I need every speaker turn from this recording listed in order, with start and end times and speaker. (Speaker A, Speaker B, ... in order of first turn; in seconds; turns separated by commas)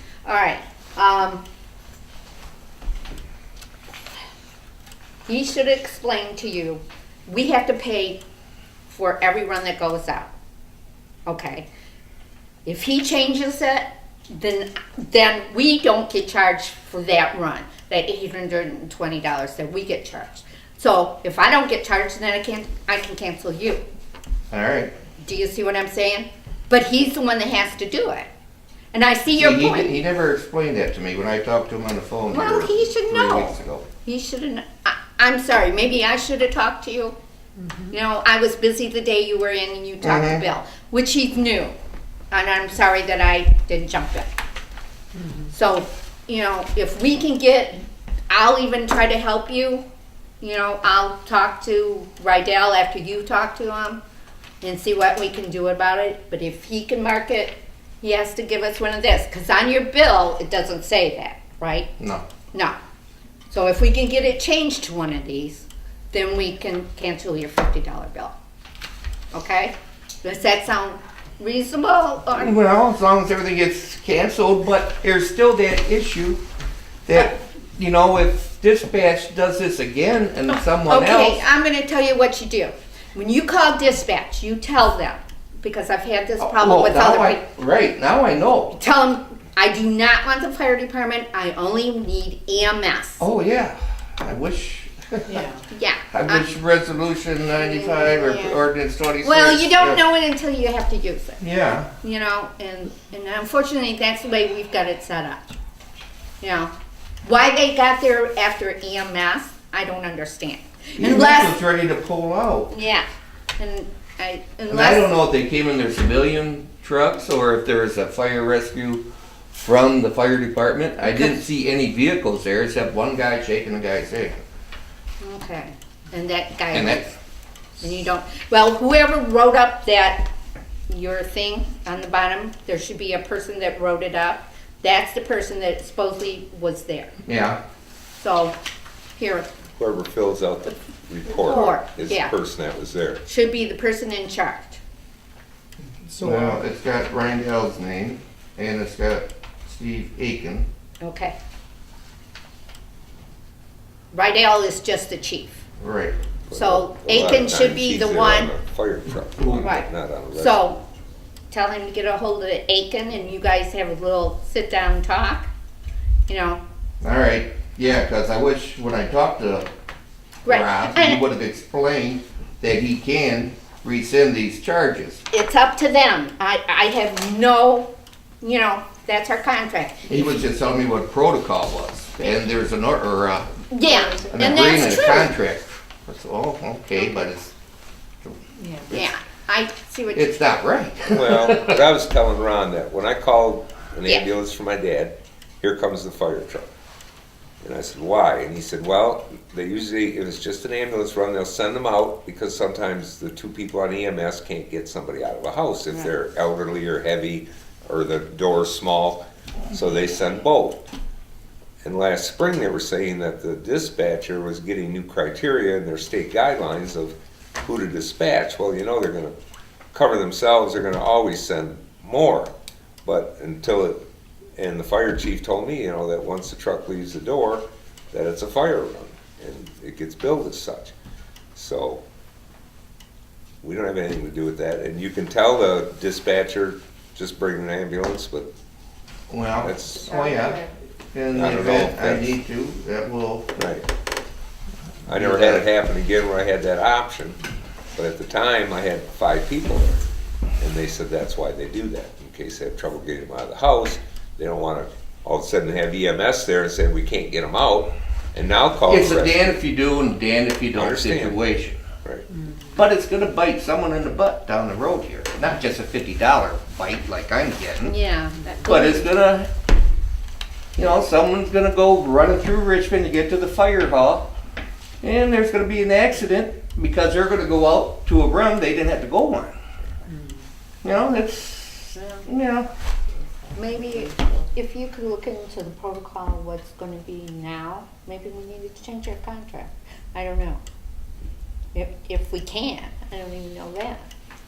Speaker A: 0.2-1.4, Speaker A: 5.3-8.2, Speaker A: 8.9-10.3, Speaker A: 11.2-11.7, Speaker A: 12.7-23.8, Speaker B: 24.5-24.9, Speaker A: 25.2-28.3, Speaker A: 28.9-29.9, Speaker B: 29.4-33.9, Speaker A: 32.3-37.1, Speaker A: 37.9-41.7, Speaker B: 40.0-40.4, Speaker A: 42.3-44.3, Speaker C: 45.2-45.5, Speaker A: 45.5-49.8, Speaker A: 50.4-54.0, Speaker A: 54.6-61.9, Speaker B: 62.0-62.2, Speaker A: 63.5-68.3, Speaker A: 69.3-72.5, Speaker B: 72.3-76.4, Speaker B: 77.0-81.5, Speaker A: 80.5-87.4, Speaker B: 86.4-88.8, Speaker A: 88.7-93.2, Speaker B: 93.2-95.4, Speaker C: 95.3-95.6, Speaker A: 95.7-96.5, Speaker B: 96.1-100.0, Speaker A: 97.6-98.7, Speaker A: 99.2-101.4, Speaker B: 101.4-101.9, Speaker A: 102.0-105.5, Speaker A: 106.4-106.7, Speaker A: 107.2-111.5, Speaker B: 111.0-112.7, Speaker A: 112.7-113.0, Speaker A: 113.6-115.1, Speaker B: 114.7-124.4, Speaker A: 125.2-127.0, Speaker B: 126.7-127.1, Speaker A: 127.8-130.3, Speaker A: 130.9-137.1, Speaker B: 137.2-137.6, Speaker A: 138.2-138.6, Speaker A: 139.2-139.5, Speaker D: 139.8-143.2, Speaker A: 141.3-142.3, Speaker A: 143.2-144.8, Speaker C: 146.0-146.6, Speaker B: 146.2-150.7, Speaker A: 151.0-151.3, Speaker A: 154.1-155.6, Speaker B: 155.8-156.2, Speaker D: 156.5-160.7, Speaker A: 156.5-158.5, Speaker B: 159.4-159.7, Speaker A: 159.6-160.8, Speaker A: 161.5-165.5, Speaker A: 166.3-166.6, Speaker B: 167.0-169.7, Speaker A: 170.4-171.2, Speaker B: 170.4-175.2, Speaker A: 175.3-177.9, Speaker A: 178.4-180.1, Speaker B: 180.1-183.5, Speaker A: 183.7-185.3, Speaker C: 183.8-184.3, Speaker B: 184.3-187.5, Speaker C: 188.6-188.9, Speaker A: 188.9-190.3, Speaker B: 190.1-191.8, Speaker D: 191.1-196.7, Speaker D: 197.6-210.8, Speaker D: 211.8-219.3, Speaker D: 219.9-222.5, Speaker D: 223.0-224.0, Speaker D: 224.6-230.9, Speaker D: 231.5-232.0, Speaker D: 233.6-238.5, Speaker B: 239.3-243.5, Speaker D: 239.6-240.2, Speaker C: 240.1-240.7, Speaker D: 241.3-242.3, Speaker D: 243.6-243.8, Speaker D: 245.1-247.4, Speaker B: 245.1-245.6, Speaker D: 247.9-250.0, Speaker D: 250.6-259.6, Speaker B: 258.9-261.8, Speaker D: 260.7-261.4, Speaker C: 262.3-262.6, Speaker B: 262.7-267.9, Speaker A: 267.8-269.1, Speaker B: 268.6-269.5, Speaker B: 270.8-274.3, Speaker B: 275.0-279.5, Speaker C: 280.1-280.4, Speaker B: 280.8-282.7, Speaker C: 283.4-284.3, Speaker A: 283.5-290.6, Speaker A: 291.7-294.1